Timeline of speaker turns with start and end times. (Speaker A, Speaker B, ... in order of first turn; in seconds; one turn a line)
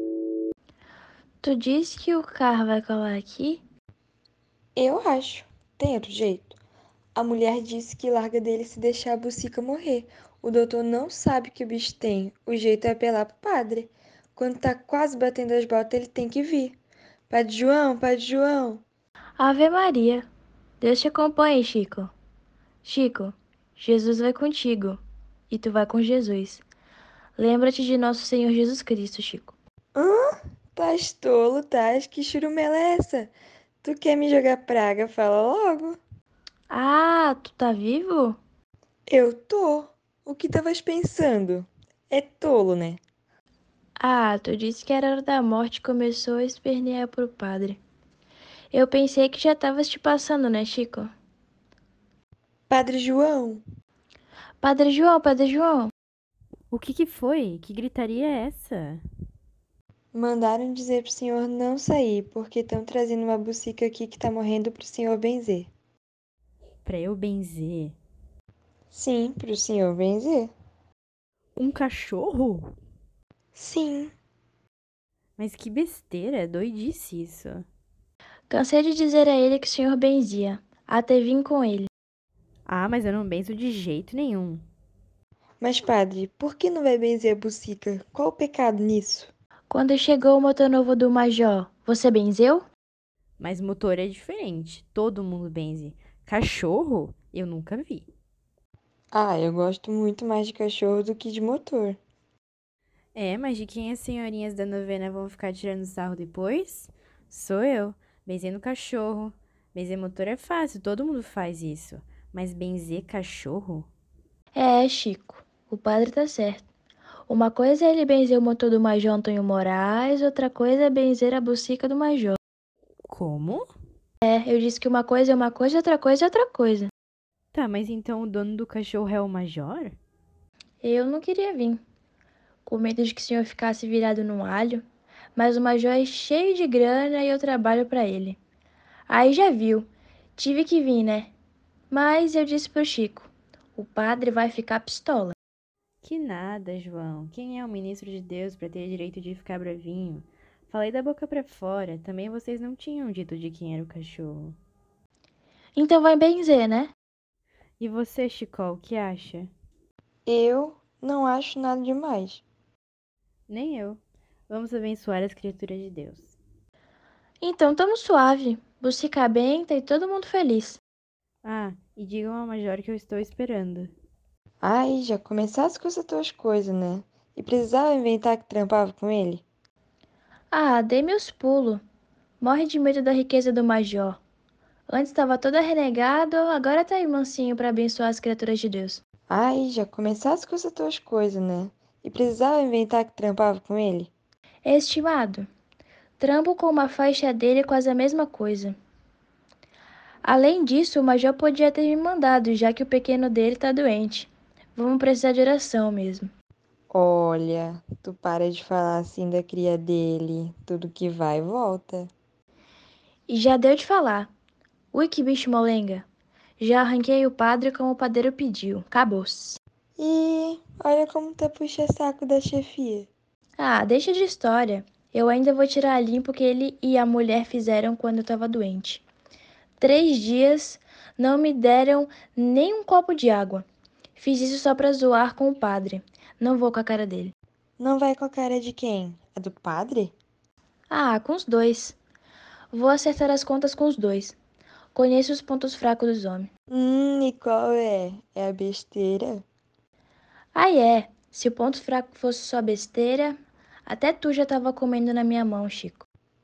Speaker A: 1.4-3.6
Speaker B: 4.8-6.6
Speaker B: 7.2-16.8
Speaker B: 17.3-18.8
Speaker A: 19.4-20.3
Speaker A: 20.8-22.1
Speaker A: 22.8-26.6
Speaker A: 27.4-29.6
Speaker B: 29.9-33.3
Speaker B: 33.8-36.0
Speaker A: 36.7-38.4
Speaker B: 39.1-43.0
Speaker A: 44.0-47.8
Speaker A: 48.7-51.1
Speaker B: 52.7-53.6
Speaker A: 54.6-55.9
Speaker C: 56.7-59.0
Speaker B: 60.1-65.7
Speaker C: 66.8-68.0
Speaker B: 68.9-70.5
Speaker C: 71.6-72.7
Speaker B: 73.5-74.1
Speaker C: 75.4-77.7
Speaker A: 78.5-81.9
Speaker C: 82.7-84.7
Speaker B: 85.6-89.3
Speaker A: 89.7-92.7
Speaker C: 93.4-98.1
Speaker B: 99.1-102.0
Speaker C: 103.2-113.9
Speaker A: 114.5-116.7
Speaker A: 117.3-122.4
Speaker C: 123.1-123.7
Speaker A: 124.2-126.9
Speaker C: 127.5-130.0
Speaker A: 130.8-131.8
Speaker A: 132.7-134.8
Speaker A: 135.4-138.4
Speaker A: 139.1-141.3
Speaker A: 141.9-145.4
Speaker C: 146.0-154.6
Speaker A: 155.8-156.9
Speaker C: 157.8-159.5
Speaker B: 160.3-162.4
Speaker C: 163.5-166.4
Speaker A: 167.4-170.8
Speaker C: 171.4-173.9
Speaker B: 174.6-179.4
Speaker A: 180.5-181.8
Speaker A: 182.4-184.2
Speaker A: 184.9-189.0
Speaker B: 189.3-194.1
Speaker A: 194.6-195.5
Speaker A: 196.2-198.8
Speaker A: 200.2-206.3
Speaker B: 206.9-212.1
Speaker A: 213.3-214.3
Speaker A: 214.9-216.1
Speaker A: 216.6-219.6
Speaker B: 220.0-223.1
Speaker A: 223.6-229.0
Speaker A: 229.8-233.7
Speaker A: 234.2-237.3
Speaker B: 237.8-240.1
Speaker A: 240.9-242.0
Speaker A: 242.7-244.4
Speaker A: 244.9-246.5
Speaker B: 246.7-249.4
Speaker A: 250.5-256.1